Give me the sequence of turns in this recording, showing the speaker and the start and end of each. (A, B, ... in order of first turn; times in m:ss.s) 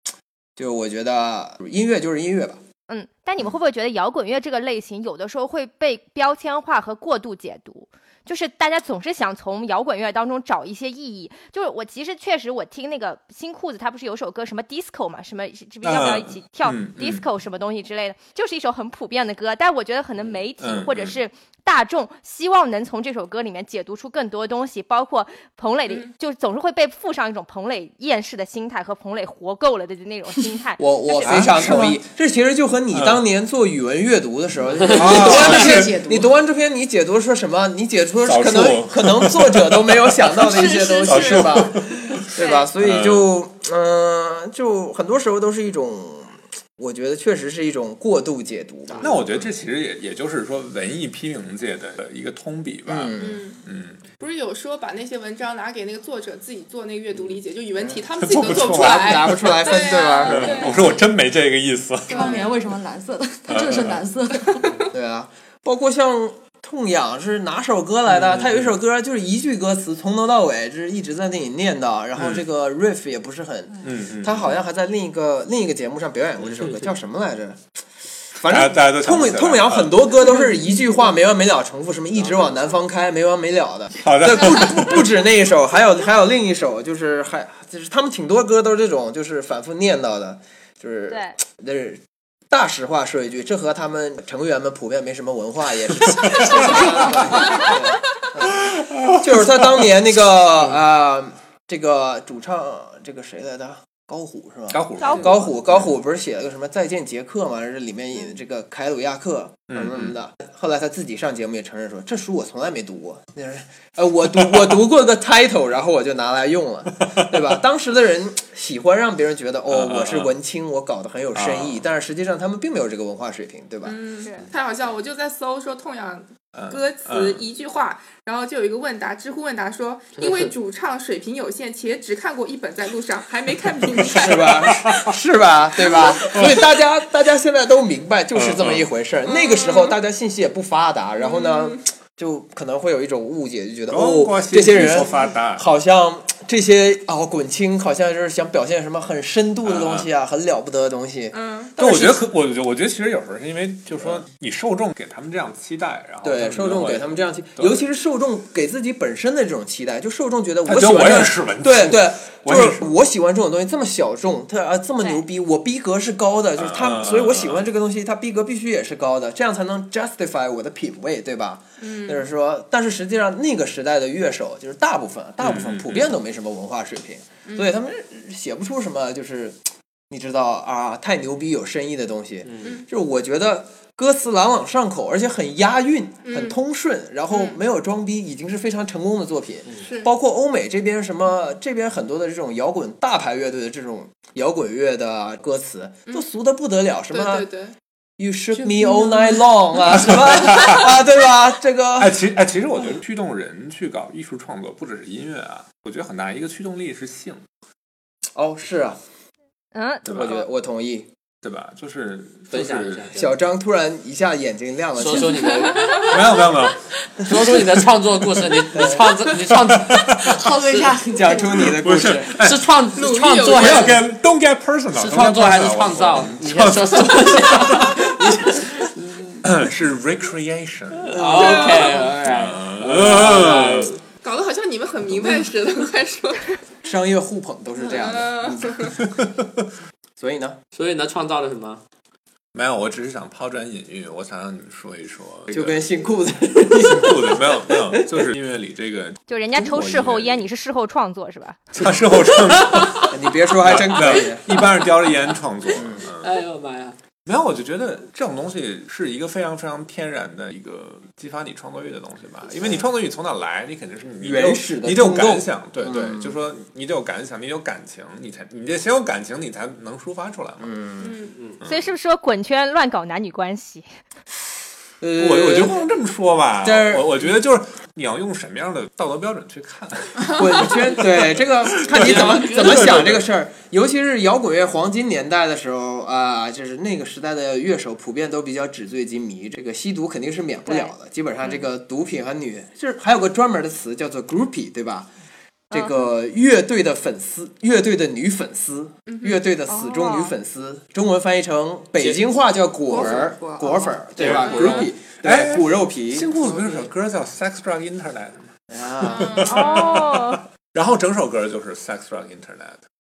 0:00.6-0:02.6 A
0:02.9-0:31.4 B
0:15.8-0:17.2 C
0:20.6-0:21.2 C
0:30.8-0:49.5 A
0:31.2-0:32.0 C
0:32.9-0:33.2 C
0:34.9-0:36.0 C
0:34.9-0:36.3 D
0:38.3-0:42.2 C
0:40.9-0:41.4 E
0:42.4-0:42.7 B
0:42.8-0:43.3 C
0:49.0-0:54.0 C
0:52.9-0:53.4 A
0:53.2-0:53.6 E
0:54.2-1:01.0 E
0:58.2-1:02.5 C
0:58.5-1:00.8 A
1:02.1-1:02.6 E
1:02.1-1:04.9 D
1:03.5-1:04.0 C
1:04.9-1:17.6 A
1:08.2-1:08.7 C
1:12.2-1:12.4 C
1:13.8-1:14.6 C
1:18.4-2:04.0 A
1:18.4-1:20.2 C
1:22.2-1:22.6 F
1:24.0-1:25.1 C
1:31.1-1:31.4 B
1:36.2-1:36.7 C
1:37.5-1:37.7 E
1:44.7-1:45.9 C
1:45.0-1:45.4 B
1:49.7-1:50.2 C
1:57.1-1:57.4 C
1:59.7-2:00.4 C
2:01.3-2:01.8 C
2:03.8-2:15.1 E
2:06.5-2:07.4 C
2:10.2-2:10.5 F
2:14.0-2:15.2 C
2:14.1-2:32.2 A
2:15.9-2:16.5 E
2:16.0-2:16.7 C
2:18.3-2:18.9 C
2:19.2-2:20.0 E
2:21.2-2:21.8 E
2:23.9-2:25.7 C
2:29.6-2:30.1 C
2:31.3-2:31.7 E
2:31.8-2:37.8 C
2:36.2-3:17.5 A
2:40.7-2:42.8 C
2:46.6-2:47.7 C
2:51.8-2:52.2 E
2:55.4-2:56.1 C
3:02.4-3:02.8 F
3:06.3-3:06.6 E
3:07.3-3:07.6 E
3:09.8-3:10.1 E
3:17.1-3:17.7 E
3:18.2-3:22.2 A
3:18.6-3:19.5 D
3:19.9-3:21.0 C
3:22.0-3:27.4 C
3:28.4-3:29.0 A
3:29.7-3:30.4 B
3:30.1-3:30.4 C
3:30.1-3:31.1 A
3:31.4-3:33.1 C
3:32.5-3:33.3 F
3:33.1-3:35.8 A
3:35.0-3:36.2 F
3:35.6-3:36.1 E
3:36.0-3:36.8 C
3:37.2-3:40.9 F
3:38.7-3:39.0 A
3:39.3-3:40.4 C
3:40.3-3:41.7 D
3:41.1-3:42.3 A
3:41.5-3:42.7 C
3:42.4-3:44.0 F
3:43.0-3:44.0 E
3:43.5-3:48.8 C
3:45.0-3:49.4 F
3:49.4-3:51.6 C
3:51.1-3:54.0 F
3:51.1-3:52.0 A
3:51.4-3:52.1 E
3:52.2-3:53.9 C
3:54.2-3:56.6 E
3:56.8-3:59.0 A
3:57.8-3:59.0 E
3:59.0-3:59.5 C
4:00.2-4:00.6 A
4:00.7-4:01.8 F
4:02.5-4:06.0 C
4:05.5-4:08.3 A
4:06.6-4:10.4 C
4:09.3-4:11.6 B
4:11.7-4:16.4 C
4:12.6-4:13.0 F
4:13.1-4:14.4 A
4:15.8-4:16.0 A
4:16.2-4:17.0 F
4:17.2-4:30.7 C
4:24.2-4:26.4 A
4:30.6-4:31.2 A
4:31.0-4:31.4 E
4:31.6-4:33.9 B
4:35.0-4:35.9 A
4:35.2-4:43.3 C
4:36.6-4:37.3 A
4:40.3-4:55.1 A
4:42.0-4:42.6 F
4:50.7-4:50.9 B
4:55.7-4:56.1 B
4:55.7-5:06.4 A
4:59.1-4:59.4 E
4:59.7-5:00.3 B
5:02.9-5:04.1 D
5:04.2-5:12.8 C
5:04.2-5:04.8 F
5:06.4-5:06.9 D
5:08.7-5:09.7 A
5:09.1-5:10.0 E
5:09.5-5:10.4 B